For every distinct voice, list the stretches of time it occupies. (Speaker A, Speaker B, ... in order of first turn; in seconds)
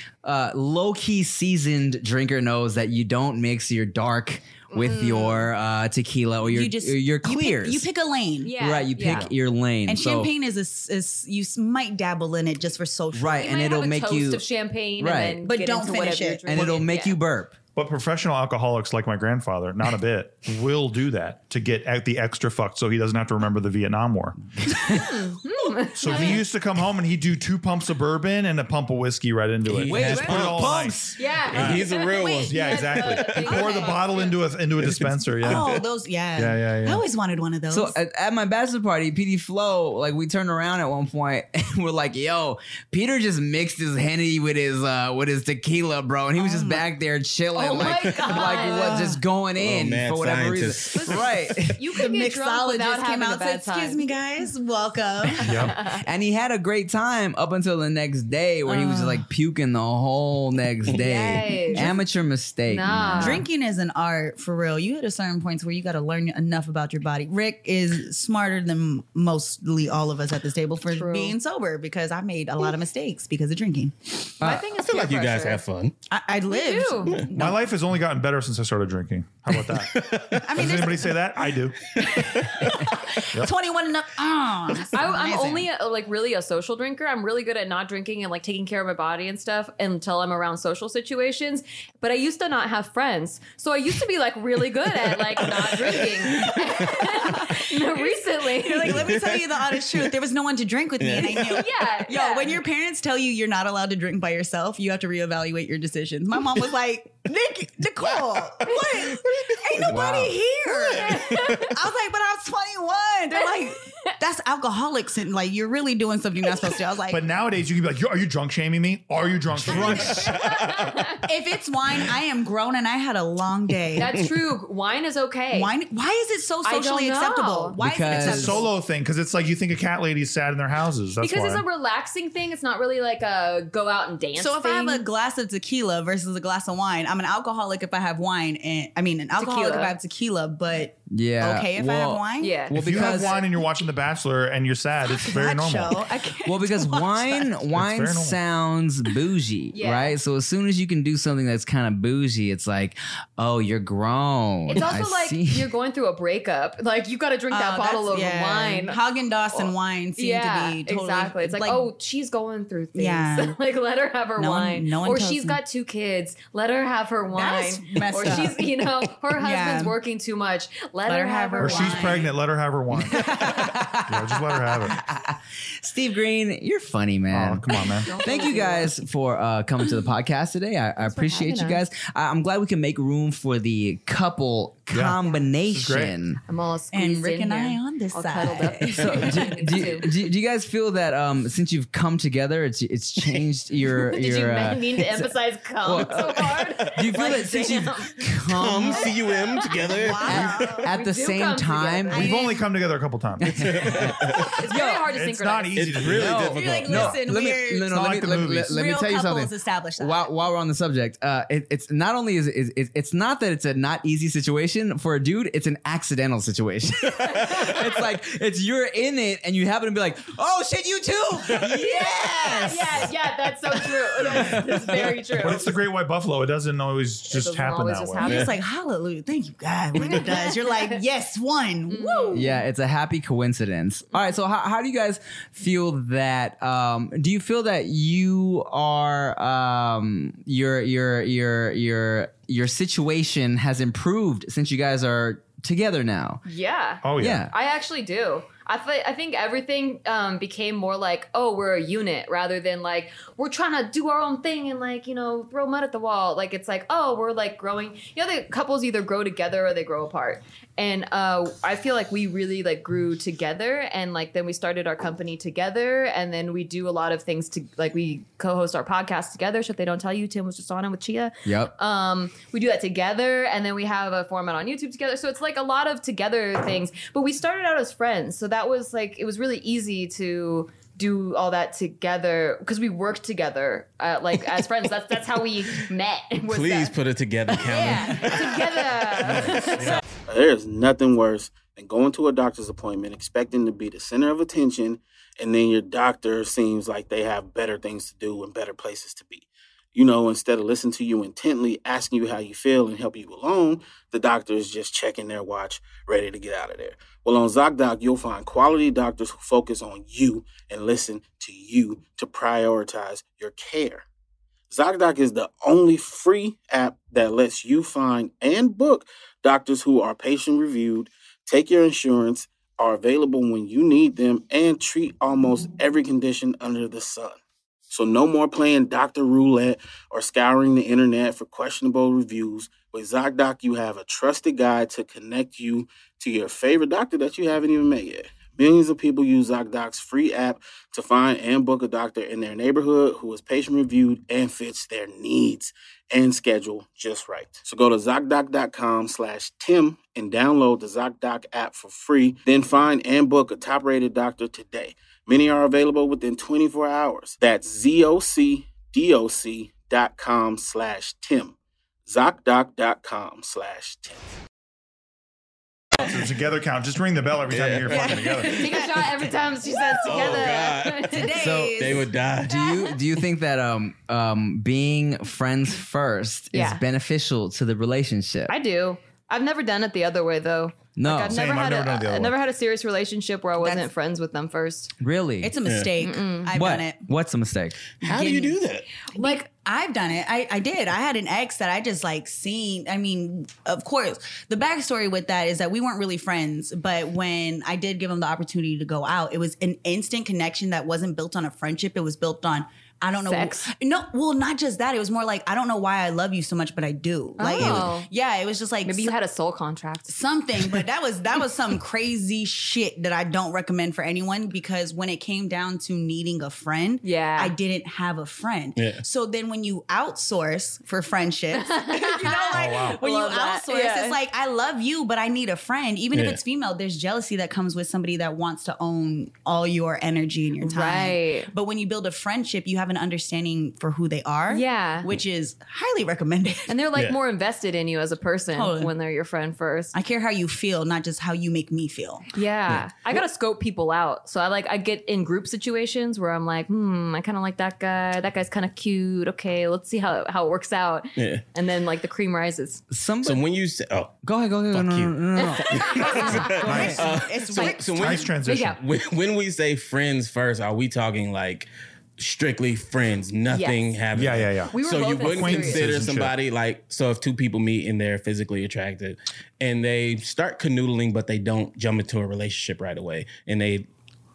Speaker A: 0.2-7.9, 8.6-10.3, 13.1-14.4, 15.0-15.4, 16.5-17.6, 29.9-31.2, 37.7-51.8, 55.7-63.5, 74.4-74.7, 109.9-110.4, 127.8-128.6, 141.1-143.4, 146.4-155.7, 173.0-186.4, 188.9-199.1, 200.2-202.4, 203.4-205.1, 206.0-223.1, 224.2-225.0, 232.3-246.4, 247.2-247.5, 271.4-271.7, 371.3-378.5, 381.0-381.4, 385.0-385.6, 386.5-387.8, 452.9-453.4, 454.2-457.1
Speaker B: 4.7-5.5, 8.4-9.3, 13.3-17.2, 24.9-26.4, 31.2-34.4, 47.5-49.0, 50.9-54.0, 55.5-56.0, 60.9-61.9, 62.7-63.5, 70.9-71.3, 74.4-75.6, 76.5-77.2, 84.9-99.1, 101.1-102.6, 110.7-111.8, 113.3-114.1, 119.7-121.3, 124.0-125.7, 126.6-127.8, 131.2-135.0, 139.3-139.9, 142.4-143.4, 149.7-150.2, 154.7-159.0, 159.5-172.3, 177.8-178.9, 181.0-181.8, 186.5-190.1, 193.9-202.2, 204.6-205.8, 217.2-218.0, 221.7-225.7, 227.3-228.5, 229.9-231.0, 231.9-232.6, 246.4-286.9, 287.5-290.0, 368.3-371.3, 376.5-376.8, 378.5-384.9, 386.0-386.5, 389.1-389.4, 403.2-403.7, 407.4-408.1, 408.8-410.1, 417.0-417.5, 421.5-424.2, 430.6-431.5, 434.5-435.1, 436.7-439.9, 442.3-452.8, 455.4-456.9, 457.5-458.8, 463.5-463.8, 464.7-465.9
Speaker C: 6.5-8.6, 9.8-13.4, 15.4-16.9, 33.5-34.0, 35.4-38.0, 46.4-46.8, 48.3-49.2, 51.9-55.7, 58.6-59.2, 63.1-74.3, 76.1-77.6, 80.4-81.1, 82.0-85.7, 97.1-117.2, 119.7-120.1, 121.2-124.2, 125.5-128.7, 134.3-142.7, 145.1-147.5, 157.5-161.9, 162.9-163.6, 164.4-165.6, 167.3-168.7, 169.3-169.9, 171.1-172.3, 186.9-189.5, 197.2-197.8, 199.8-200.9, 202.1-202.6, 206.5-210.3, 221.5-223.0, 228.2-232.6, 367.9-369.0, 370.1-370.4, 371.1-372.1, 383.6-383.9, 385.4-387.1, 388.0-388.6, 389.1-409.1, 410.1-436.8, 438.5-438.9, 439.9-442.2, 456.1-458.2
Speaker D: 17.7-25.0, 25.9-31.9, 32.5-35.8, 36.4-37.0, 55.4-55.8, 77.3-81.9, 117.1-120.4, 128.1-131.6, 142.7-146.1, 147.7-148.4, 171.6-175.0, 177.3-178.2, 184.9-186.1, 202.1-204.4, 205.0-207.2, 207.9-208.7, 225.3-228.4, 247.0-247.4, 289.3-290.0, 365.9-368.7, 381.3-382.4, 422.5-423.0, 454.7-455.1, 456.5-457.0, 457.9-458.8, 464.1-466.3
Speaker E: 29.6-30.8, 31.5-33.6, 34.8-35.8, 49.5-51.1, 74.8-75.9, 79.6-80.6, 95.3-96.8, 98.9-100.1, 101.0-101.6, 108.0-110.2, 110.9-111.6, 120.1-121.0, 198.4-200.8, 203.6-204.5, 205.7-207.2, 228.2-228.5, 286.5-289.5, 290.3-294.8, 295.7-299.4, 299.9-300.2, 303.4-304.9, 305.5-306.1, 307.0-307.4, 308.3-308.5, 309.4-313.7, 315.8-317.8, 318.4-319.6, 320.2-320.5, 322.8-323.3, 332.2-333.1, 333.6-334.2, 336.2-336.6, 338.4-338.9, 340.9-341.9, 347.0-347.8, 349.5-350.1, 352.7-353.0, 355.9-361.4, 362.1-364.2, 367.5-368.4, 370.0-372.8, 385.6-385.9, 388.0-388.9, 407.6-407.8, 418.8-419.0, 426.1-426.4, 451.2-451.4, 453.2-454.1, 455.7-473.9
Speaker F: 290.3-299.4, 299.9-314.0, 314.7-327.4, 327.9-361.5, 362.1-364.1